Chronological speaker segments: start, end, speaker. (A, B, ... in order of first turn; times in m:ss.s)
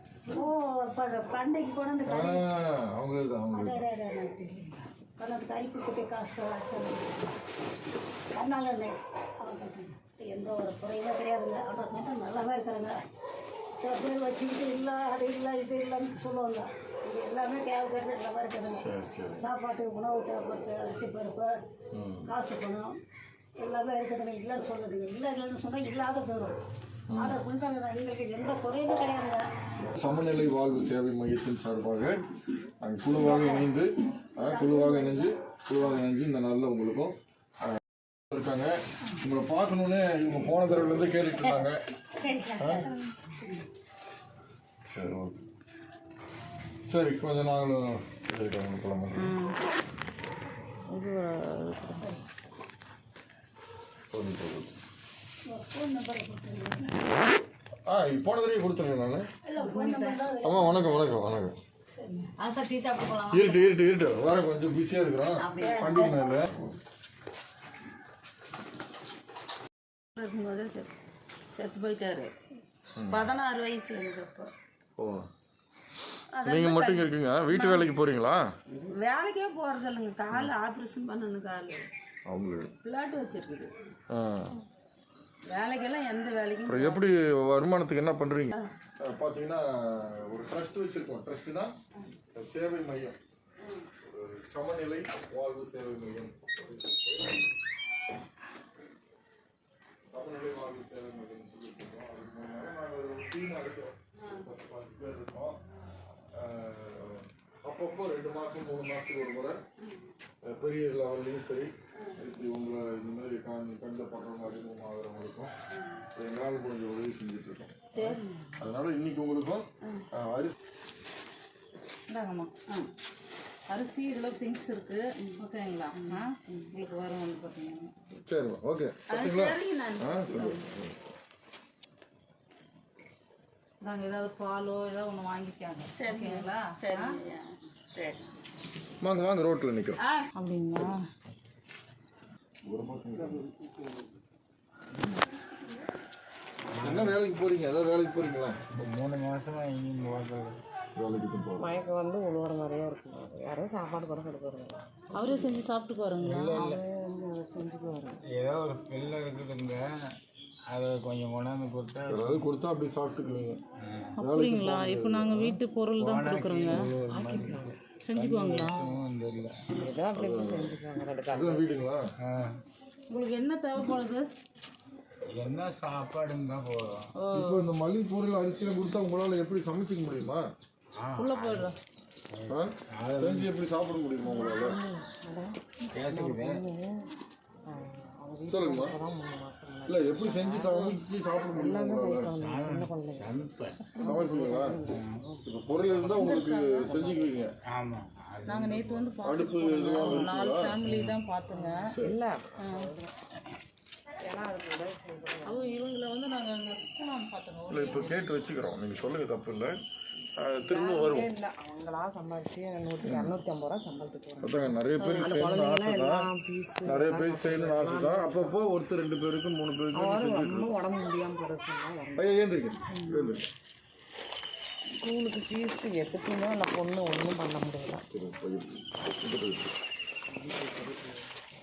0:00.2-0:02.4 A
0:02.1-0:03.8 B
0:03.5-0:07.2 A
0:08.3-0:12.9 A
0:13.8-0:18.8 A
0:18.7-0:19.4 B
0:19.4-0:21.5 A
0:21.9-0:22.3 B
0:22.3-0:22.9 A
0:23.6-0:26.5 A
0:27.1-0:27.4 B
0:27.2-0:29.4 A
0:29.8-0:32.2 B
0:32.8-0:37.8 B
0:33.1-0:33.7 A
0:34.4-0:35.3 A
0:38.3-0:41.8 B
0:42.3-0:42.8 A
0:42.6-0:42.9 B
0:44.9-0:45.4 B
0:46.9-0:49.3 B
0:49.1-0:49.6 C
0:50.9-0:52.0 C
0:54.1-0:54.8 B
0:55.5-0:57.0 A
0:57.8-0:59.3 B
0:59.4-1:01.1 A
0:59.6-1:00.2 C
1:00.4-1:01.6 B
1:01.9-1:02.3 A
1:02.4-1:03.6 C
1:03.3-1:06.8 B
1:05.6-1:06.0 A
1:05.6-1:06.2 D
1:10.1-1:10.9 D
1:11.5-1:12.3 D
1:13.0-1:13.3 B
1:13.1-1:14.5 D
1:15.0-1:15.3 B
1:16.3-1:17.9 D
1:16.4-1:18.4 B
1:19.0-1:21.9 D
1:22.3-1:22.7 B
1:22.8-1:23.7 D
1:24.1-1:24.6 B
1:25.5-1:27.0 D
1:26.6-1:31.7 B
1:32.3-1:33.2 B
1:34.0-1:37.4 B
1:40.1-1:45.6 B
1:46.3-1:49.6 B
1:50.4-1:55.5 B
1:56.1-1:58.0 B
1:58.0-1:58.5 D
1:58.6-2:00.5 B
2:02.1-2:02.5 C
2:03.7-2:07.9 C
2:06.0-2:06.6 D
2:08.2-2:10.9 B
2:09.1-2:10.7 D
2:13.8-2:17.2 C
2:16.0-2:18.2 D
2:19.0-2:20.0 B
2:20.4-2:21.0 C
2:22.6-2:23.4 B
2:26.7-2:27.2 E
2:26.8-2:28.6 B
2:28.7-2:30.6 E
2:31.0-2:31.8 B
2:31.6-2:34.8 F
2:35.1-2:36.6 C
2:36.2-2:36.8 E
2:36.5-2:38.2 F
2:38.2-2:42.4 E
2:42.1-2:43.6 B
2:43.8-2:44.2 E
2:44.2-2:46.8 C
2:44.2-2:45.3 B
2:45.3-2:49.6 E
2:47.1-2:47.8 F
2:48.0-2:49.0 C
2:49.8-2:51.8 F
2:50.1-2:52.1 B
2:52.2-2:52.6 E
2:53.1-2:54.2 C
2:55.3-2:57.1 E
2:57.2-2:57.7 C
2:57.3-3:00.4 B
3:01.0-3:01.7 E
3:01.2-3:01.8 C
3:02.3-3:03.5 E
3:02.5-3:04.8 B
3:04.2-3:07.1 F
3:05.9-3:06.6 E
3:07.7-3:15.9 F
3:08.5-3:09.0 B
3:09.8-3:12.4 B
3:12.4-3:14.0 E
3:14.0-3:14.8 B
3:14.9-3:15.3 E
3:15.4-3:17.5 B
3:16.1-3:17.2 C
3:16.9-3:17.5 F
3:17.6-3:19.1 E
3:18.4-3:21.9 C
3:19.2-3:20.8 B
3:19.9-3:20.3 F
3:20.8-3:21.2 E
3:21.5-3:23.1 F
3:21.9-3:22.2 B
3:22.6-3:22.9 C
3:24.2-3:25.8 F
3:25.4-3:28.3 C
3:27.7-3:29.8 B
3:30.4-3:31.3 B
3:30.6-3:38.8 F
3:33.0-3:33.4 B
3:34.4-3:36.3 B
3:35.0-3:35.4 C
3:36.8-3:40.8 B
3:39.9-3:42.6 F
3:42.1-3:43.4 B
3:44.9-3:48.0 F
3:48.1-3:49.7 B
3:50.3-3:51.3 F